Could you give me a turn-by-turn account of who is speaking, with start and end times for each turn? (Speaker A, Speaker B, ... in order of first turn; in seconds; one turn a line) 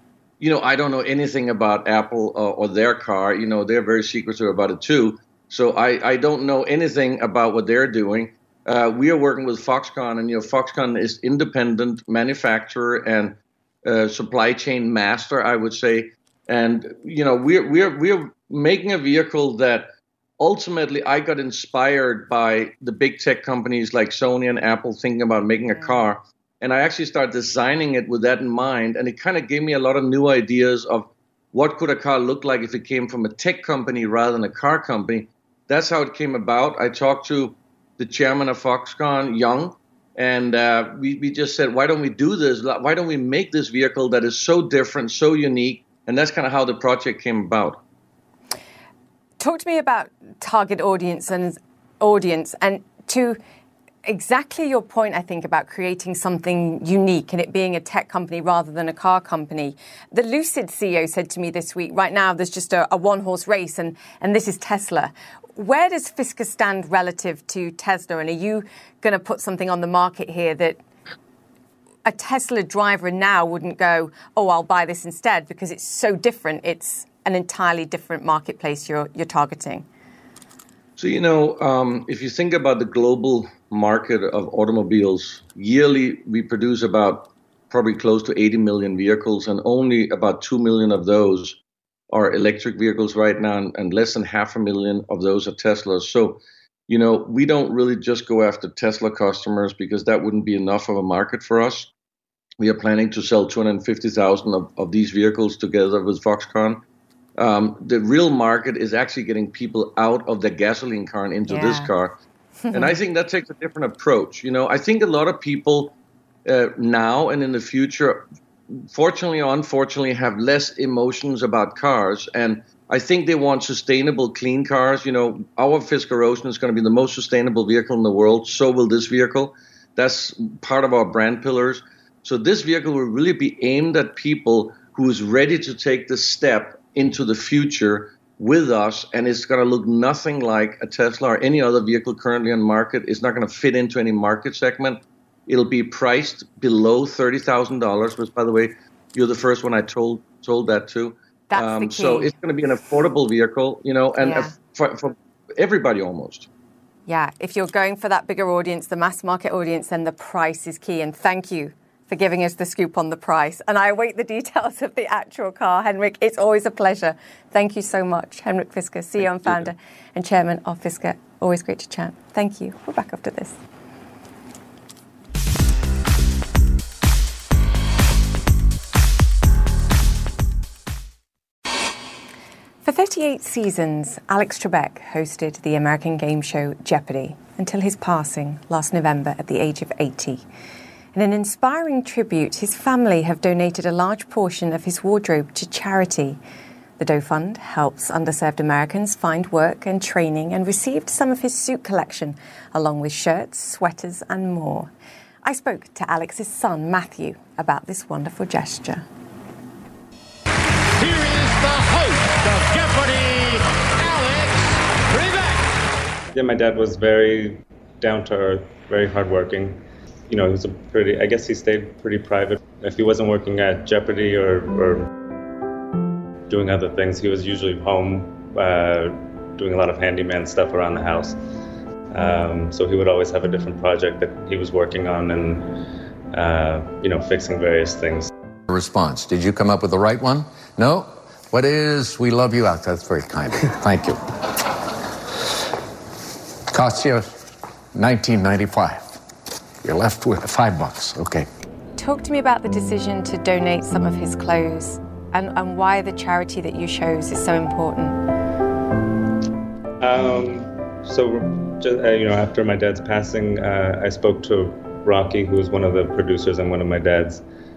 Speaker A: 0.4-47.8
Speaker B: 25.7-26.0
Speaker B: 49.4-53.4
Speaker B: 54.0-70.8
Speaker B: 72.0-79.9
Speaker A: 81.0-91.6
Speaker A: 92.1-101.9
Speaker A: 102.6-106.8
Speaker A: 107.4-112.2
Speaker B: 111.5-111.9
Speaker B: 112.7-113.0
Speaker A: 112.7-156.5
Speaker B: 151.5-152.3
Speaker B: 154.2-154.5
Speaker B: 157.1-173.6
Speaker B: 182.8-190.4
Speaker B: 191.1-196.4
Speaker B: 197.0-204.9
Speaker B: 205.4-209.1
Speaker C: 211.0-215.7
Speaker D: 216.3-225.1
Speaker D: 226.5-231.4
Speaker D: 232.1-235.7
Speaker D: 236.3-238.3
Speaker E: 238.7-244.6
Speaker E: 246.7-247.4
Speaker E: 247.9-249.1
Speaker E: 249.8-251.5
Speaker B: 252.0-258.2
Speaker D: 260.0-267.4